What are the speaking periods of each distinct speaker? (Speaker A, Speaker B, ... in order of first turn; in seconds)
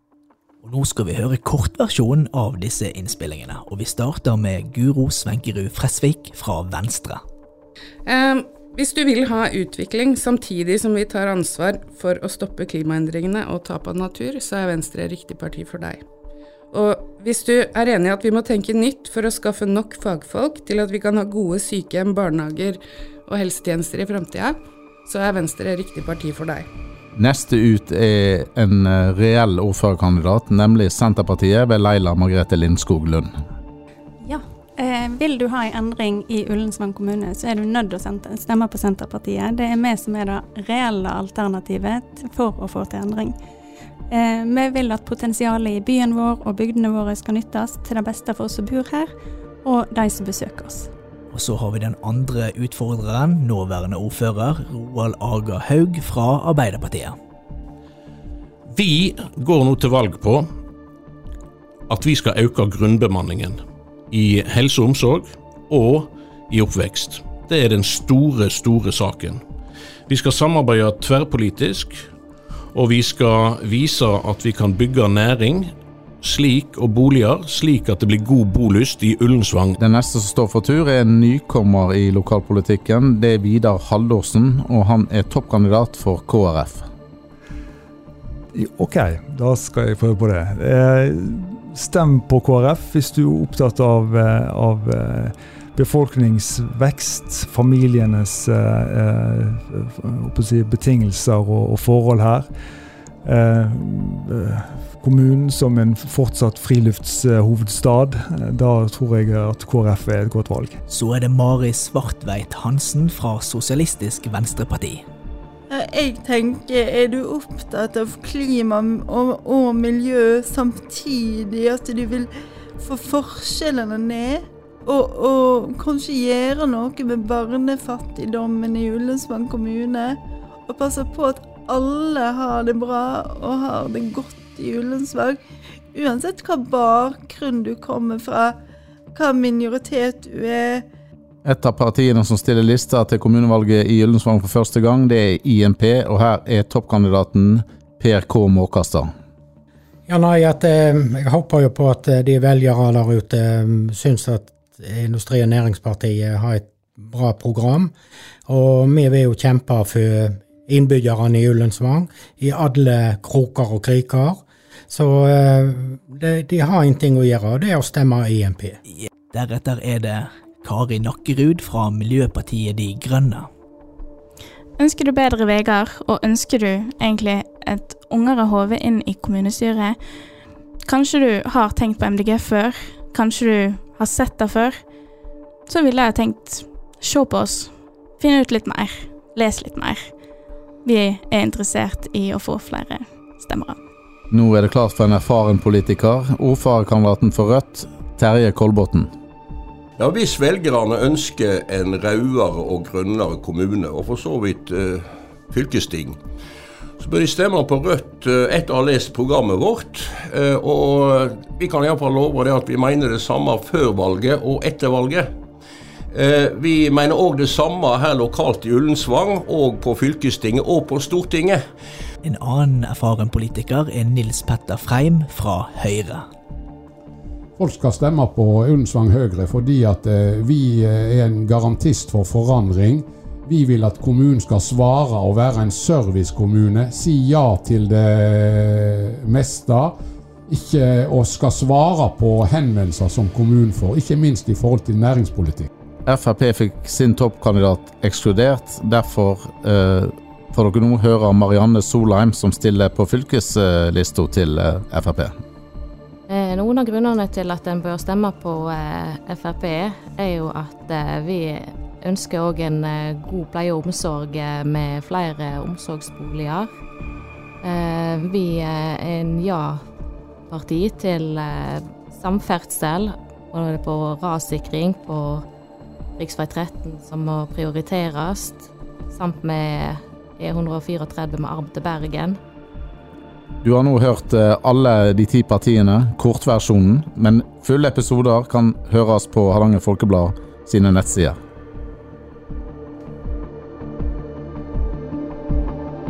Speaker A: 0.6-7.2, 51.3-57.2, 110.9-115.0, 169.0-173.5, 222.2-226.2
Speaker B: 8.1-16.0, 16.7-26.6
Speaker C: 27.1-33.3, 79.8-86.9, 141.4-149.1, 194.3-199.1, 246.1-255.3, 283.6-291.4
Speaker D: 34.2-43.4, 44.1-49.1, 49.6-50.9
Speaker E: 58.7-60.5, 61.9-69.4, 70.1-72.1, 72.7-79.8
Speaker F: 88.5-102.5, 103.2-110.8
Speaker G: 115.7-122.3, 122.8-135.4, 135.9-138.5, 139.1-140.8
Speaker H: 150.1-157.9, 158.5-168.8
Speaker I: 174.8-180.0, 180.8-184.8, 185.7-190.1, 190.8-193.8
Speaker J: 200.0-206.2, 207.0-215.3, 216.1-221.6
Speaker K: 227.6-239.9, 240.5-245.7
Speaker L: 256.3-266.7, 267.6-269.8, 270.5-275.4, 276.2-282.4